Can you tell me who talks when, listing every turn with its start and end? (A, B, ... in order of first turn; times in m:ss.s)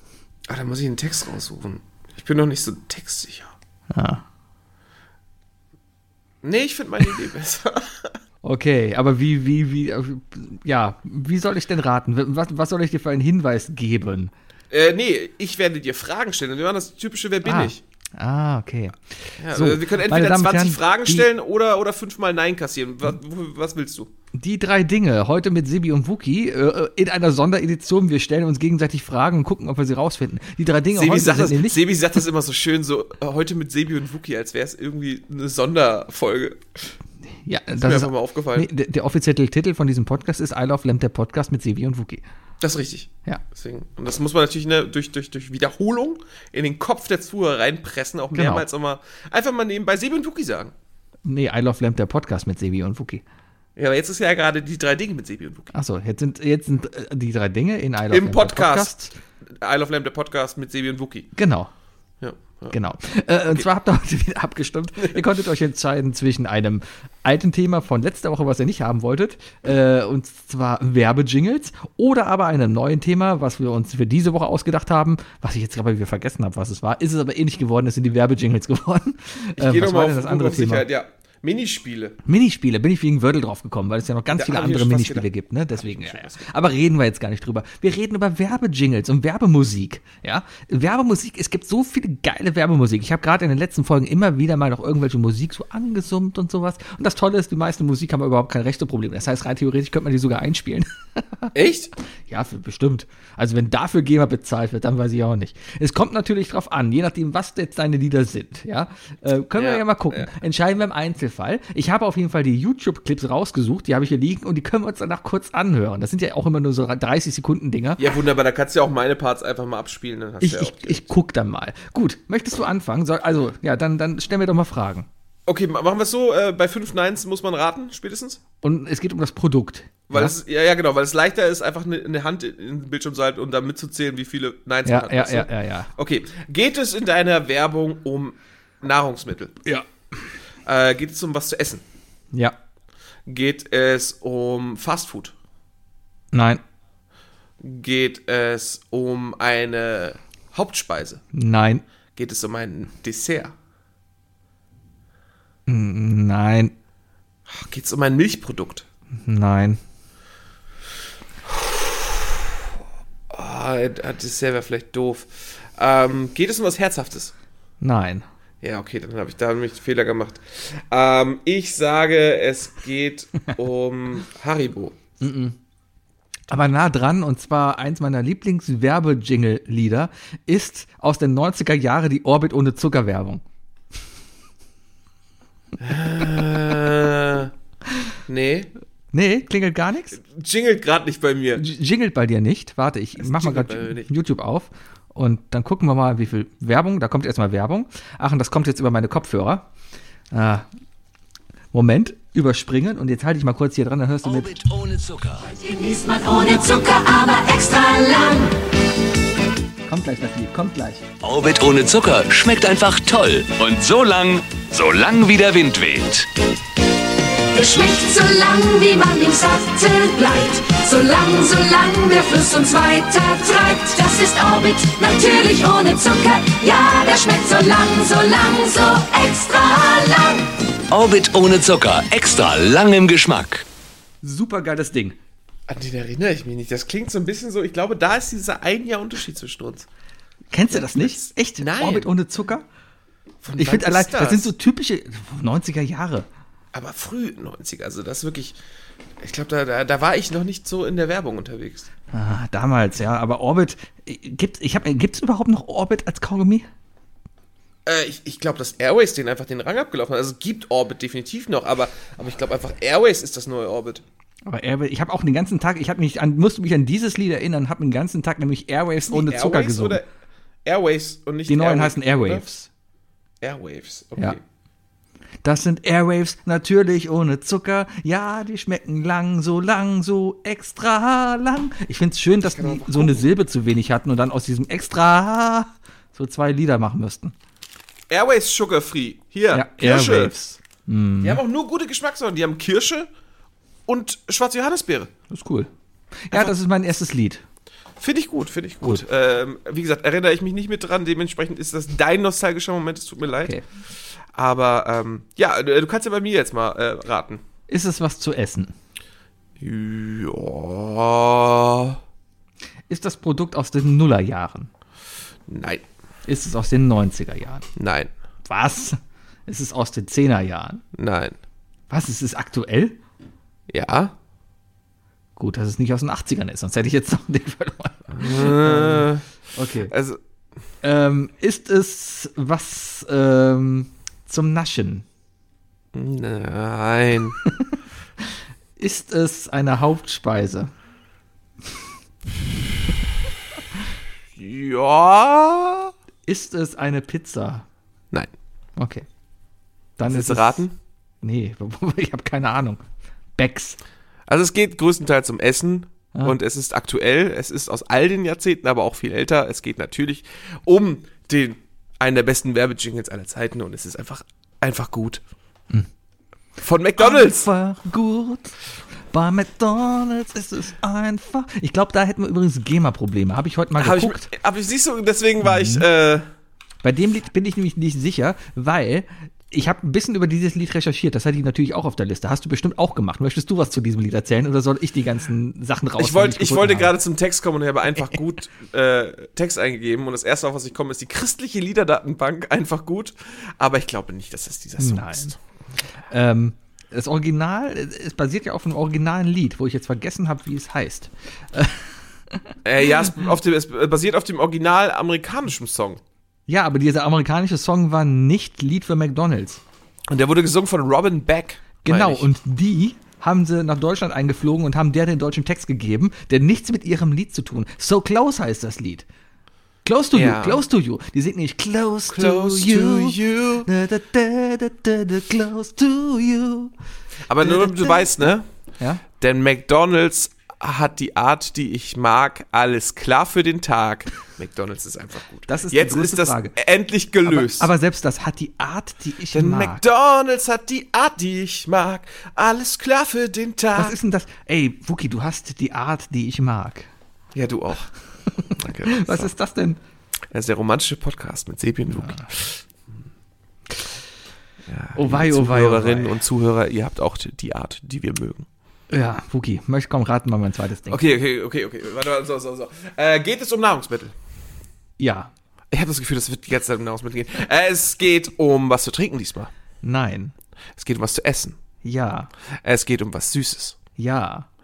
0:00.5-0:03.5 A
0:03.9-0:04.2 B
0:06.4-0:08.2 A
0:08.4-0:14.3 B
0:14.7-0:17.8 A
0:17.4-0:21.3 B
0:19.4-0:24.1 A
0:24.3-0:31.8 B
0:30.9-0:36.8 A
0:37.4-0:42.2 B
0:37.8-0:38.7 A
0:42.6-0:50.7 A
0:48.3-0:48.6 B
0:51.2-0:53.2 B
0:53.8-0:55.7 A
0:55.7-0:59.1 B
0:58.1-0:59.0 A
0:59.5-1:01.3 A
1:01.4-1:01.7 B
1:02.2-1:02.7 A
1:02.7-1:20.8 B
1:19.6-1:22.2 A
1:22.2-1:41.5 B
1:24.3-1:26.5 A
1:41.5-1:41.9 A
1:42.3-1:58.0 B
1:49.6-1:50.3 A
1:58.0-2:01.1 A
2:00.4-2:05.1 B
2:05.5-2:08.4 A
2:08.6-2:10.3 B
2:10.1-2:19.6 A
2:14.8-2:15.9 B
2:20.6-2:21.8 A
2:23.3-2:25.3 A
2:26.3-2:26.6 B
2:27.6-2:31.2 A
2:31.3-2:31.8 B
2:32.1-2:33.5 A
2:35.7-2:36.7 B
2:37.5-2:38.8 A
2:39.2-2:39.8 B
2:41.5-2:42.4 A
2:43.3-2:47.3 A
2:47.8-2:48.2 B
2:48.6-2:55.0 A
2:55.2-2:55.6 B
2:56.5-3:03.4 B
3:05.8-3:07.5 A
3:08.3-3:08.7 A
3:09.1-3:10.2 B
3:10.2-3:11.6 A
3:11.6-3:19.7 B
3:13.2-3:14.1 A
3:20.3-3:20.6 B
3:21.7-3:24.6 B
3:24.3-3:25.4 C
3:25.5-3:28.6 D
3:29.9-3:31.0 B
3:31.2-3:36.2 C
3:37.5-3:50.5 D
3:50.9-3:53.6 C
3:54.2-3:55.2 B
3:55.7-3:59.9 A
4:00.5-4:02.6 B
4:00.7-4:02.1 A
4:03.4-4:04.5 A
4:03.5-4:06.3 B
4:06.7-4:08.6 A
4:09.2-4:11.9 A
4:12.1-4:16.6 B
4:17.8-4:24.0 A
4:24.4-4:30.0 B
4:29.1-4:30.1 A
4:30.6-4:32.4 A
4:31.5-4:32.7 B
4:33.4-4:34.4 A
4:35.4-4:47.3 B
4:42.4-4:43.3 A
4:48.1-4:50.3 A
4:49.5-4:51.4 B
4:51.2-4:53.1 A
4:53.9-4:55.1 A
4:55.3-4:55.7 B
4:56.2-4:57.4 B
4:58.0-5:03.6 A
5:04.3-5:07.4 A
5:07.7-5:08.7 B
5:09.6-5:12.0 A
5:12.9-5:14.7 B
5:15.5-5:15.8 A
5:16.3-5:17.6 B
5:17.8-5:18.1 A
5:18.4-5:20.8 B
5:20.9-5:21.4 A
5:21.9-5:23.0 B
5:23.7-5:24.1 A
5:25.4-5:29.9 B
5:28.1-5:29.2 A
5:29.8-5:30.2 A
5:30.8-5:35.0 B
5:35.9-5:37.4 A
5:37.4-5:37.7 B
5:38.8-5:40.7 B
5:44.4-5:45.9 A
5:46.3-5:47.6 B
5:48.8-5:49.0 B
5:50.0-5:50.6 B
5:50.0-5:50.8 A
5:51.2-5:52.8 B
5:53.4-5:53.8 B
5:54.3-6:05.2 A
6:06.6-6:07.5 A
6:07.0-6:08.6 B
6:09.1-6:14.3 B
6:13.8-6:16.2 A
6:15.4-6:15.8 B
6:16.8-6:26.9 B
6:26.0-6:35.4 A
6:34.8-6:35.4 B
6:36.1-6:42.4 B
6:42.6-6:46.0 A
6:46.5-6:49.6 B
6:50.1-6:52.3 A
6:51.8-6:59.0 B
6:59.8-7:06.7 B
7:00.1-7:00.6 A
7:02.1-7:03.7 A
7:07.3-7:08.4 A
7:07.4-7:09.0 B
7:09.1-7:17.7 A
7:15.5-7:16.6 B
7:17.2-7:19.8 B
7:19.3-7:24.0 A
7:23.7-7:26.9 B
7:27.3-7:27.9 A
7:28.3-7:29.8 B
7:28.6-7:29.3 A
7:30.3-7:32.6 A
7:31.9-7:32.3 B
7:34.7-7:38.5 A
7:34.9-7:36.2 B
7:38.9-7:41.0 B
7:40.9-7:44.2 A
7:45.0-7:45.3 B
7:45.7-7:49.5 A
7:49.8-7:50.3 B
7:50.8-7:51.6 A
7:51.8-7:52.3 B
7:52.6-7:53.8 A
7:54.0-7:54.5 B